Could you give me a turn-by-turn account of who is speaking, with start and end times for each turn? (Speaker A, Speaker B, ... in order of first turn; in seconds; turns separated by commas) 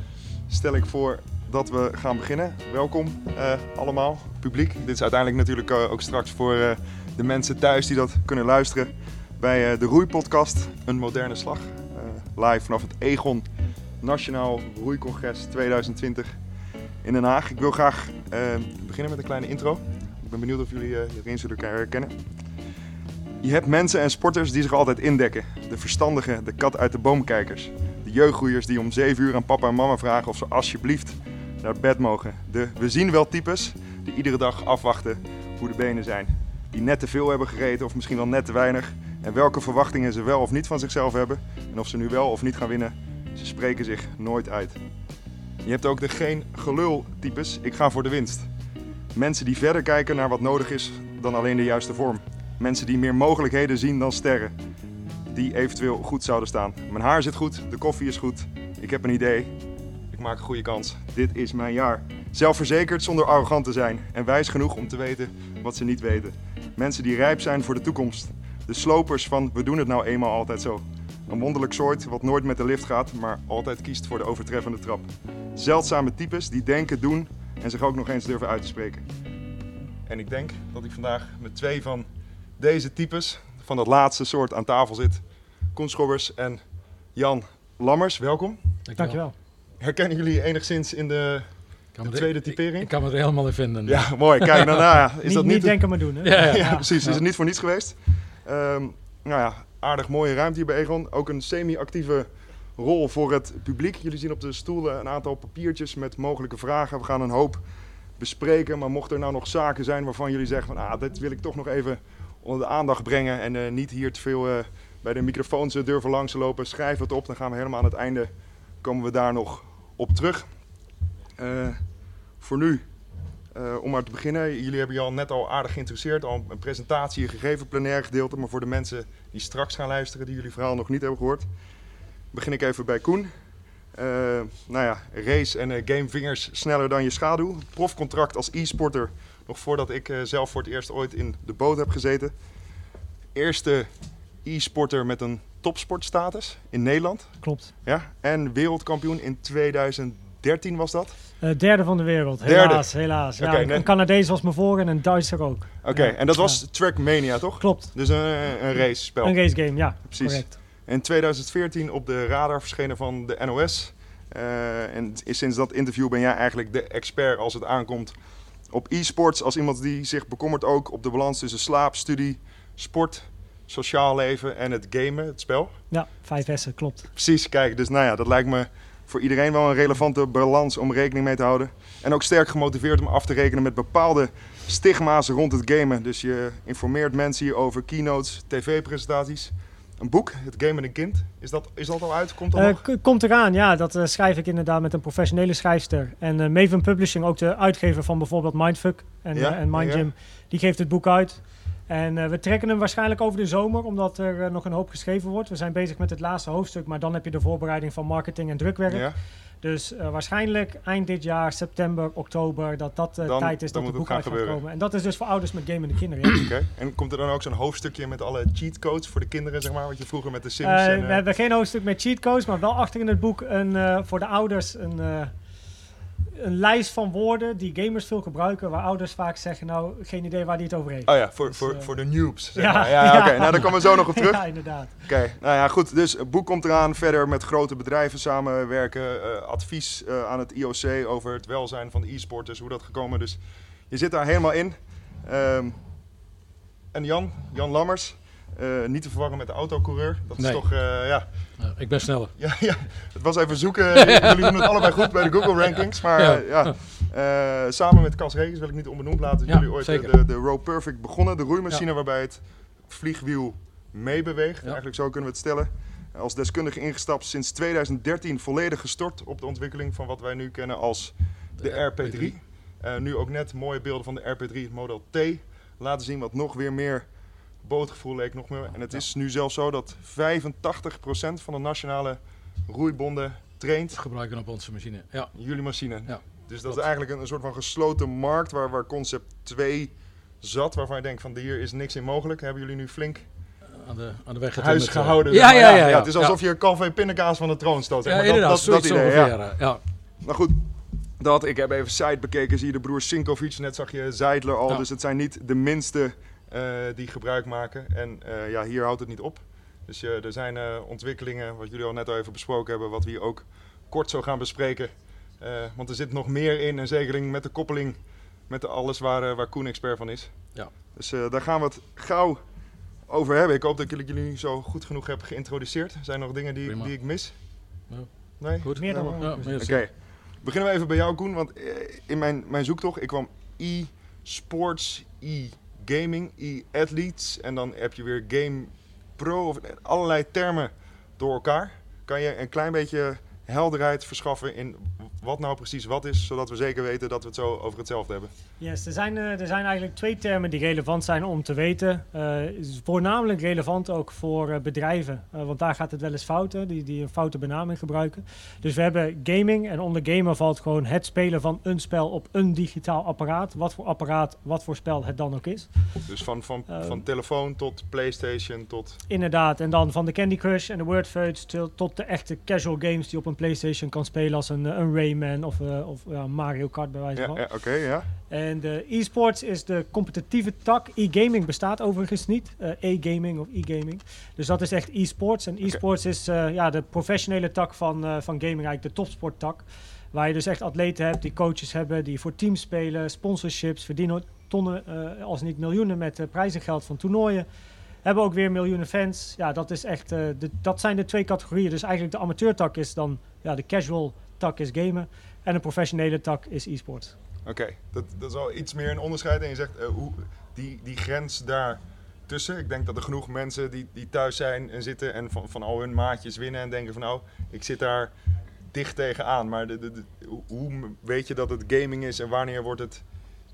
Speaker A: 0.5-13.5, Speaker A: 14.0-16.4, Speaker A: 17.0-22.2, Speaker A: 23.4-44.8, Speaker A: 45.6-48.5, Speaker A: 49.1-54.5, Speaker A: 55.3-59.5, Speaker A: 60.1-79.1, Speaker A: 80.1-86.6, Speaker A: 87.2-88.6, Speaker B: 88.9-89.2, Speaker C: 89.0-89.3, Speaker A: 89.8-92.9, Speaker B: 91.9-94.8, Speaker A: 93.9-107.6, Speaker C: 95.2-96.9, Speaker B: 96.2-97.2, Speaker A: 108.2-120.6, Speaker A: 121.4-122.9, Speaker A: 123.5-131.5, Speaker A: 132.3-133.3, Speaker A: 133.9-142.3, Speaker A: 143.3-143.9, Speaker A: 144.4-151.2, Speaker C: 147.4-147.7, Speaker C: 151.4-157.0, Speaker A: 152.4-153.9, Speaker A: 155.8-168.1, Speaker C: 157.6-157.9, Speaker C: 159.2-160.6, Speaker A: 168.7-175.8, Speaker C: 175.9-177.1, Speaker A: 177.2-192.8, Speaker C: 192.6-216.4, Speaker A: 199.3-200.1, Speaker A: 208.9-209.2, Speaker A: 213.2-214.6, Speaker A: 216.4-221.2, Speaker C: 220.6-225.3, Speaker C: 226.3-235.1, Speaker A: 231.1-245.8, Speaker A: 246.9-251.6, Speaker B: 250.4-250.9, Speaker B: 251.6-252.4, Speaker A: 252.4-277.1, Speaker B: 254.0-254.8, Speaker B: 256.2-256.8, Speaker B: 259.5-260.1, Speaker B: 271.6-272.3, Speaker A: 277.6-284.0, Speaker B: 284.0-285.4, Speaker A: 285.4-293.3, Speaker B: 286.1-286.8, Speaker B: 293.7-296.4, Speaker A: 294.6-299.6, Speaker B: 298.1-299.8, Speaker A: 300.2-300.6, Speaker A: 301.2-322.4, Speaker A: 323.1-327.4, Speaker B: 326.7-326.9, Speaker B: 327.9-329.9, Speaker A: 328.4-348.3, Speaker C: 328.8-329.7, Speaker C: 348.6-365.7, Speaker A: 366.1-369.0, Speaker C: 366.7-367.0, Speaker C: 369.1-377.4, Speaker A: 377.2-378.1, Speaker C: 378.3-397.5, Speaker C: 398.0-407.2, Speaker A: 407.4-418.1, Speaker A: 418.7-423.0